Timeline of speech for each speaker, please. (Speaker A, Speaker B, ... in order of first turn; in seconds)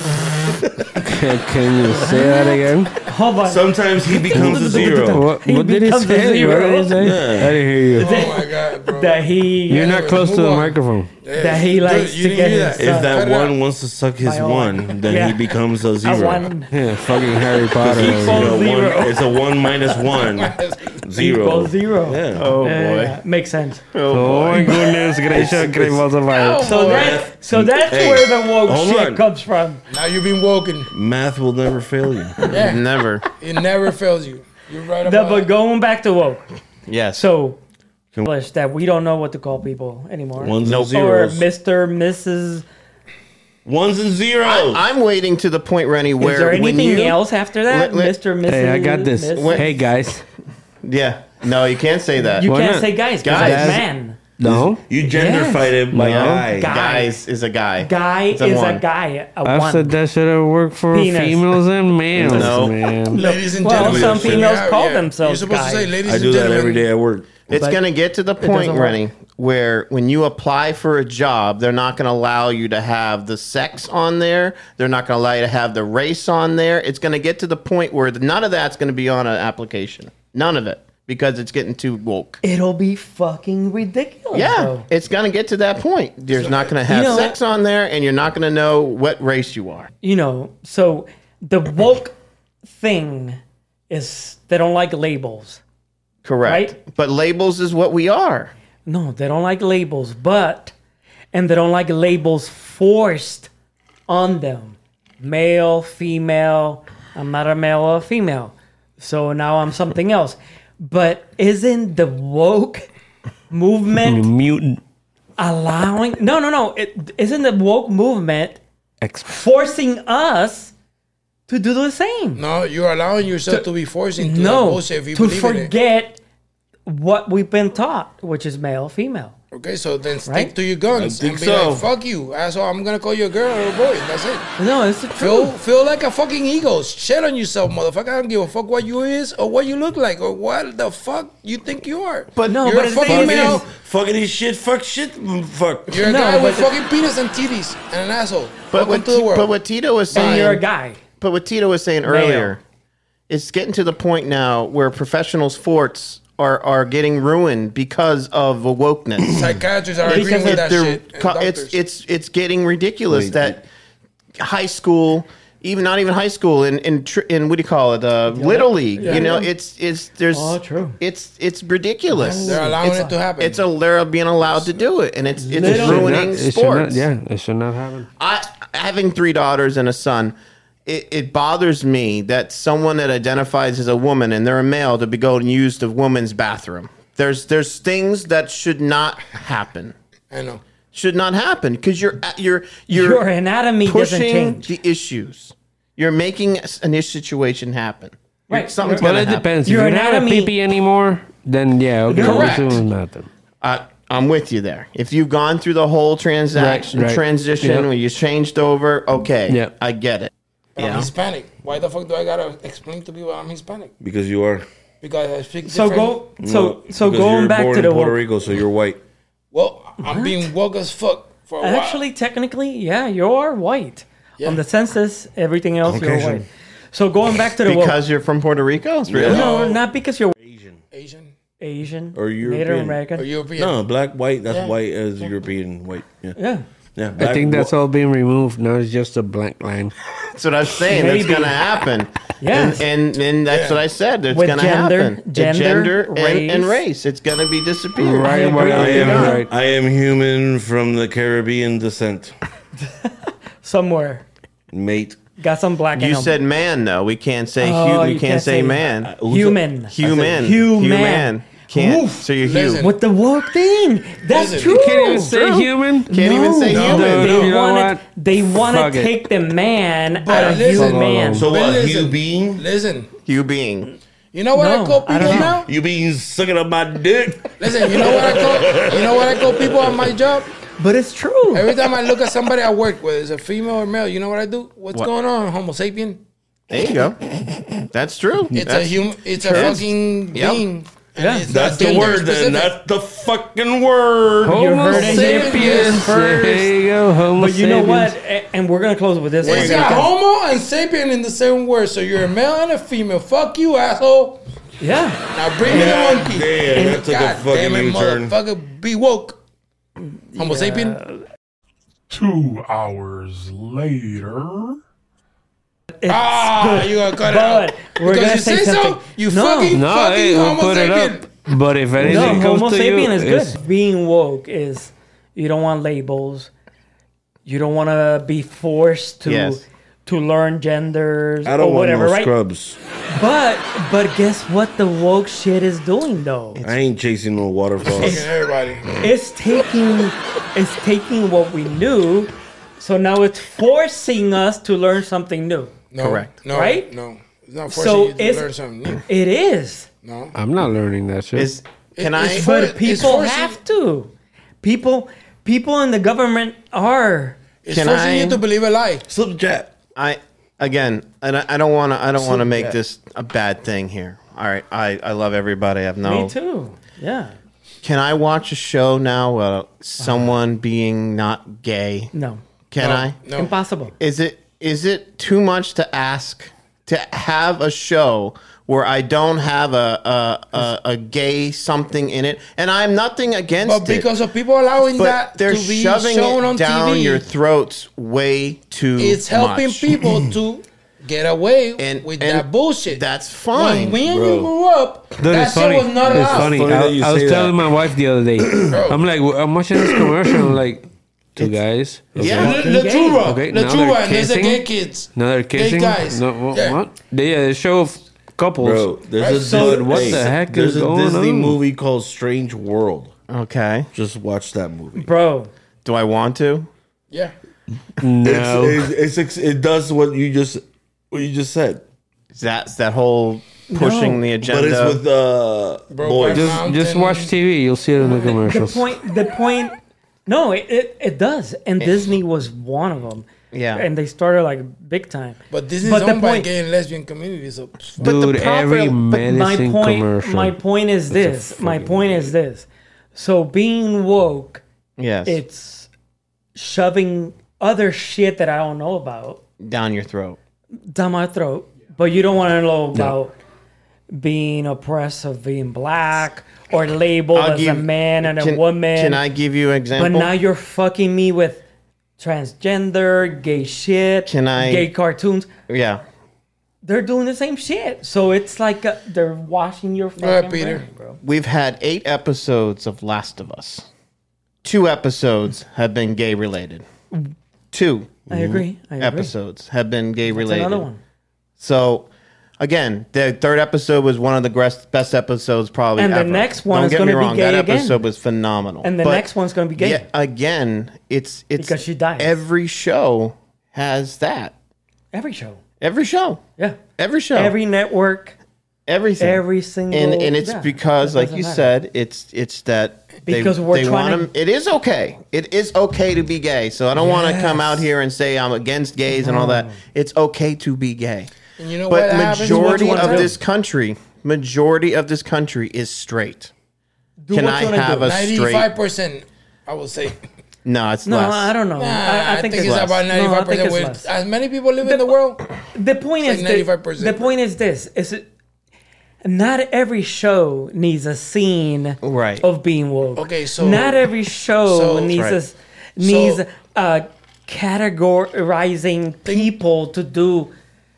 Speaker A: 1.0-3.0, 4.3-8.1, 9.7-11.1, 16.7-18.6, 24.1-26.7, 48.4-50.2, 52.4-53.9, 54.4-54.8, 55.9-56.4, 59.4-63.2, 114.0-114.8, 119.0-119.4, 175.6-178.1, 199.0-203.3, 206.6-207.9, 237.2-239.9, 248.0-249.5, 264.7-269.2, 270.3-271.5, 294.4-298.1, 319.7-323.6, 350.3-351.5, 395.2-402.5, 403.2-411.6, 418.0-418.8, 426.3-428.9, 438.0-440.6, 441.1-442.3
Speaker B: 1.8-7.4, 8.0-10.0, 11.3-13.1, 14.2-15.5, 16.0-16.7, 18.0-19.3, 21.1-23.9, 26.6-29.8, 35.0-36.5, 37.1-37.6, 38.2-42.6, 46.2-49.7, 52.2-54.2, 55.1-57.1, 57.8-60.0, 60.9-61.6, 63.1-65.9, 67.5-67.8, 68.4-69.0, 82.4-84.9, 86.9-87.3, 90.0-92.1, 92.7-95.6, 96.4-96.8, 98.8-100.7, 101.3-103.5, 104.1-112.9, 113.5-114.2, 115.4-118.6, 119.2-120.7, 121.5-122.4, 124.2-126.2, 126.8-129.3, 130.2-130.5, 134.6-135.5, 142.4-143.7, 146.0-146.7, 150.1-151.0, 152.0-152.6, 160.0-160.7, 168.3-169.5, 170.3-171.0, 172.1-173.2, 175.4-176.2, 192.9-194.7, 198.5-199.1, 199.6-200.5, 202.1-202.8, 215.7-218.2, 220.0-220.4, 221.6-228.0, 229.3-230.3, 231.6-233.2, 236.4-236.6, 240.9-241.6, 242.4-242.8, 244.3-246.8, 248.2-249.4, 252.8-254.2, 255.4-256.4, 257.6-262.2, 262.8-271.5, 274.5-275.6, 280.8-281.8, 291.2-291.5, 294.5-296.7, 297.3-300.1, 304.8-305.2, 310.3-311.2, 316.0-319.8, 322.0-326.5, 327.4-332.3, 333.1-336.6, 338.0-338.3, 338.9-345.8, 346.5-346.9, 347.7-348.5, 349.0-349.9, 352.1-354.1, 354.6-357.4, 366.0-367.3, 370.0-370.3, 372.1-372.4, 373.3-373.9, 402.3-403.3, 409.4-410.1, 414.9-415.5, 423.7-424.3, 428.0-429.7, 430.2-436.5, 439.1-444.6, 445.2-445.9, 446.5-449.4, 450.8-453.4, 454.1-459.2, 459.9-461.6, 462.2-465.5, 466.8-471.2, 478.3-479.3, 480.3-481.0, 486.0-488.0, 488.8-490.1, 491.6-492.4, 495.1-495.6, 497.3-498.4, 499.2-501.7, 503.2-504.3, 506.9-507.9, 509.1-509.8, 512.4-513.4, 517.2-518.1, 521.0-524.1, 524.8-525.1, 525.7-528.3, 529.2-540.5
Speaker C: 3.4-5.2, 7.0-7.6, 12.8-16.5, 17.8-22.5, 25.3-26.1, 26.8-29.2, 30.9-32.5, 40.4-41.4, 43.6-44.9, 54.4-56.7, 62.1-62.5, 63.6-64.5, 66.0-67.6, 130.9-131.8, 143.1-146.0, 163.1-163.6, 214.0-214.7, 216.4-219.0, 225.8-226.4, 229.1-229.7, 230.4-230.8, 232.1-233.0, 233.6-236.4, 236.9-237.7, 248.7-252.3, 254.7-255.2, 259.0-260.4, 271.4-272.6, 275.2-280.1, 291.5-294.7, 299.4-300.0, 305.6-308.3, 322.0-322.4, 331.4-332.8, 336.6-338.3, 359.1-359.7, 394.1-394.5, 396.1-397.7, 398.4-398.8, 399.8-400.5, 408.6-413.1, 413.9-415.1, 418.2-421.8, 424.4-426.6, 478.3-478.6
Speaker D: 7.9-13.5, 20.1-20.9, 26.3-27.2, 29.9-30.9, 32.5-32.8, 33.4-35.5, 63.1-66.9, 86.3-86.8, 122.3-125.7, 129.5-134.5, 135.2-143.6, 145.9-149.5, 150.1-150.6, 159.3-161.7, 169.0-169.3, 172.2-173.6, 190.3-190.6, 202.1-202.8, 210.8-213.9, 215.0-216.2, 219.5-222.0, 229.2-229.8, 230.9-231.3, 233.1-233.8, 243.5-243.8, 262.4-262.9, 264.3-264.9, 266.7-267.5, 270.2-273.1, 274.3-275.7, 277.6-280.5, 281.5-286.2, 288.5-292.7, 294.9-296.1, 299.4-304.4, 305.3-309.4, 310.4-311.0, 316.1-321.3, 337.8-338.9, 345.9-349.0, 350.0-350.3, 351.9-353.6, 357.6-359.1, 372.8-373.5, 383.6-387.2, 389.0-396.7, 398.7-399.0, 402.2-406.8, 409.2-410.2, 425.9-427.3, 435.5-438.1, 470.2-470.9, 511.6-513.3, 518.0-520.2, 521.8-525.4, 526.2-527.3, 533.1-534.0, 534.7-535.1, 536.0-536.4, 539.2-539.5
Speaker E: 22.3-23.2, 23.9-24.9, 32.5-33.2, 36.9-37.2, 40.6-40.9, 44.4-48.1, 49.4-49.7, 50.8-53.8, 55.9-58.8, 62.2-62.8, 67.5-82.4, 84.3-89.9, 96.2-98.5, 142.3-142.8, 148.7-150.6, 151.2-152.6, 153.3-159.5, 160.0-163.6, 164.4-177.1, 178.2-180.3, 180.8-189.9, 190.9-193.2, 193.8-199.5, 203.6-211.1, 227.6-229.5, 240.3-249.3, 255.9-259.1, 259.9-262.9, 266.1-267.3, 273.2-273.9, 286.7-287.2, 287.8-290.6, 329.2-329.6, 346.0-346.3, 351.4-352.8, 357.7-358.4, 359.9-366.3, 367.8-372.1, 372.7-373.2, 374.0-384.1, 384.9-390.2, 391.8-394.0, 402.1-402.6, 413.3-413.9, 415.8-416.7, 422.3-425.0, 433.5-433.9, 438.0-439.0, 445.0-445.4, 449.6-450.4, 457.3-460.3, 464.3-464.9, 465.7-466.0, 471.2-473.9, 474.6-476.8, 477.7-478.2, 479.0-480.9, 481.6-482.1, 482.6-494.5, 495.8-496.4, 497.0-497.6, 498.9-511.3, 511.9-516.5, 517.3-518.7, 520.6-521.5, 532.0-532.4, 535.1-535.4
Speaker F: 312.1-314.8